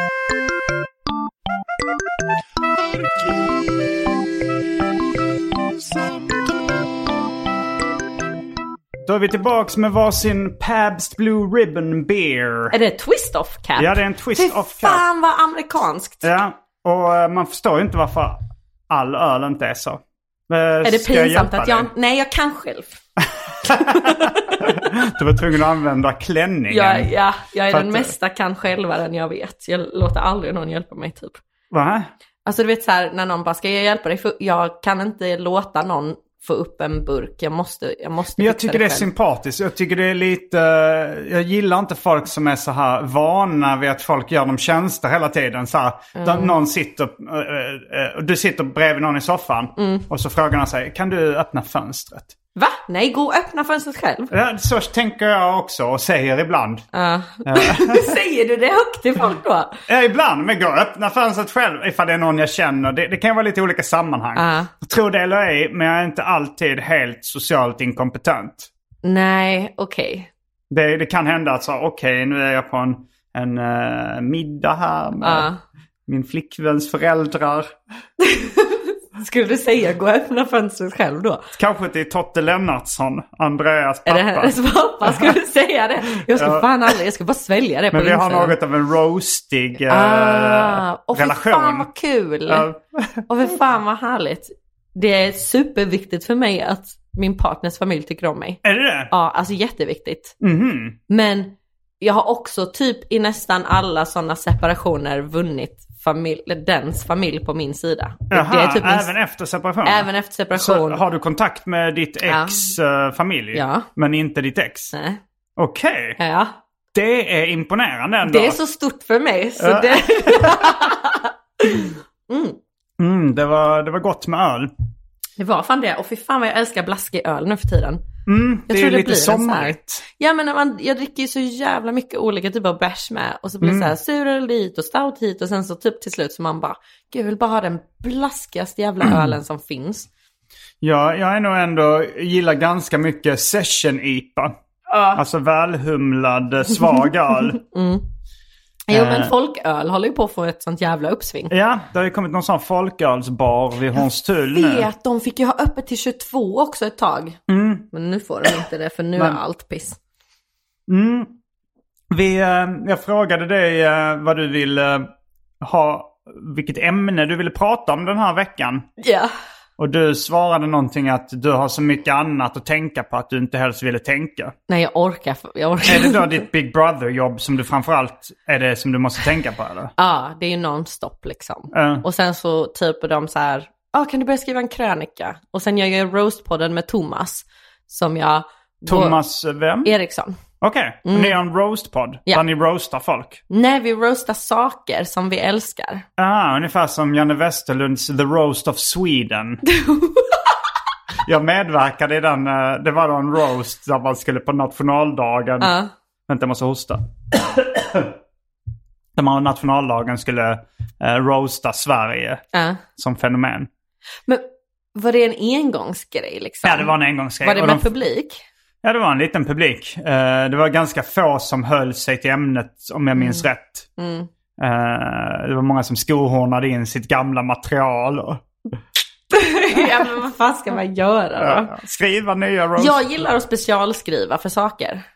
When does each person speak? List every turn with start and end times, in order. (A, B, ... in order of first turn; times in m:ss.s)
0:02.9-0:03.7 A
0:05.9-0:06.4 A
0:09.0-0:12.8 A
0:12.7-0:16.3 B
0:13.8-0:15.0 A
0:16.2-0:21.9 A
0:20.8-0:23.0 B
0:23.6-0:27.1 A
0:23.6-0:24.9 B
0:26.7-0:31.4 B
0:27.7-0:28.2 A
0:31.7-0:32.1 A
0:32.5-0:39.1 B
0:38.4-0:52.3 A
0:46.2-0:46.6 B
0:49.8-0:50.1 B
0:52.6-0:54.3 B
0:54.3-0:56.8 A
0:56.9-0:59.8 B
0:57.5-0:58.1 A
0:59.9-1:08.7 A
1:04.4-1:04.7 B
1:09.0-1:10.3 B
1:10.7-1:15.5 A
1:15.2-1:15.6 B
1:16.1-1:17.7 A
1:18.2-1:21.4 B
1:21.6-1:25.4 A
1:24.1-1:28.6 B
1:26.3-1:26.9 A
1:27.9-1:31.9 A
1:29.9-1:32.7 B
1:32.5-1:33.2 A
1:33.3-1:40.4 B
1:38.6-1:39.1 A
1:40.4-1:41.0 A
1:41.1-1:49.1 B
1:48.3-1:54.9 A
1:49.8-1:51.0 B
1:52.3-1:52.6 B
1:53.5-1:53.9 B
1:54.9-1:55.2 B
1:55.6-1:56.2 A
1:56.2-1:56.6 B
1:56.9-1:58.6 A
1:58.2-2:02.6 B
1:59.6-2:00.6 A
2:03.0-2:04.7 A
2:05.4-2:08.0 B
2:08.3-2:10.0 A
2:08.7-2:20.1 B
2:13.6-2:13.9 A
2:19.0-2:19.3 A
2:20.8-2:24.5 A
2:24.9-2:25.2 B
2:25.2-2:27.6 A
2:27.6-2:28.1 B
2:28.9-2:31.5 B
2:28.9-2:29.3 A
2:31.5-2:34.9 A
2:34.5-2:37.4 B
2:37.5-2:37.9 A
2:37.9-2:40.0 B
2:40.9-2:41.4 A
2:42.1-2:45.1 A
2:45.6-2:48.9 A
2:49.0-2:49.3 B
2:49.8-2:54.6 A
2:54.7-2:56.4 B
2:55.9-2:59.9 A
3:00.0-3:09.2 B
3:01.7-3:02.0 A
3:08.9-3:09.9 A
3:09.8-3:10.4 B
3:10.6-3:13.4 A
3:11.0-3:11.4 B
3:13.5-3:16.0 B
3:16.2-3:19.6 A
3:19.7-3:20.4 B
3:21.2-3:25.7 A
3:25.6-3:25.9 B
3:26.3-3:28.1 A
3:29.2-3:33.7 A
3:32.5-3:32.8 B
3:34.3-3:38.4 B
3:36.6-3:37.9 A
3:38.8-3:43.9 A
3:43.2-3:43.5 B
3:44.0-3:44.3 B
3:44.6-3:48.4 A
3:49.3-3:51.7 B
3:51.4-3:53.0 A
3:52.8-3:55.0 B